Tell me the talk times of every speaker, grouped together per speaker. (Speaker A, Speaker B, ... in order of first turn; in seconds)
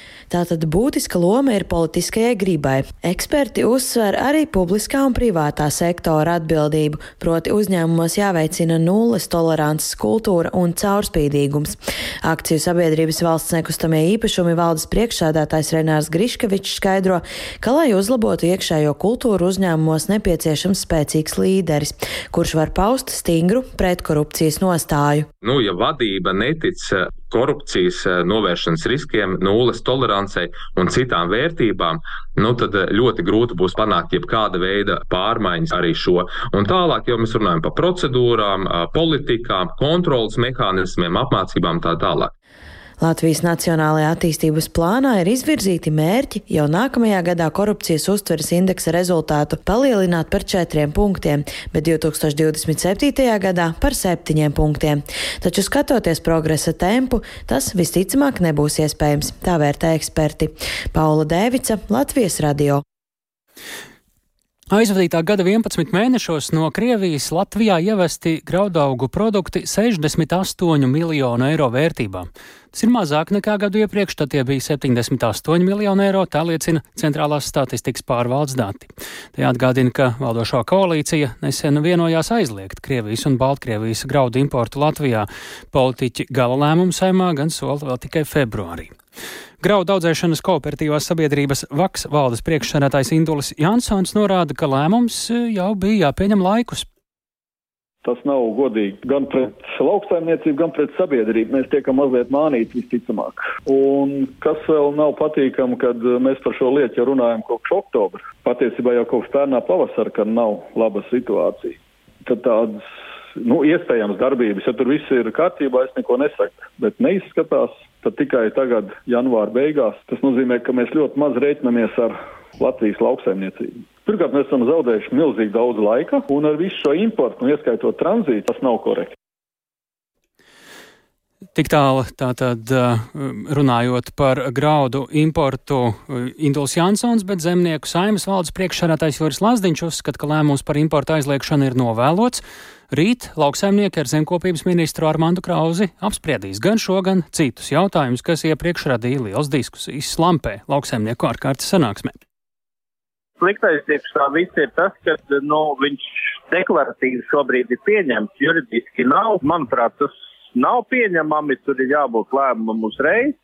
Speaker A: 0.3-25.3, 43.0-62.8
Speaker B: 25.4-42.3
Speaker C: 64.7-89.0, 89.6-96.9, 131.6-152.2
Speaker D: 98.0-129.2
Speaker E: 153.4-163.3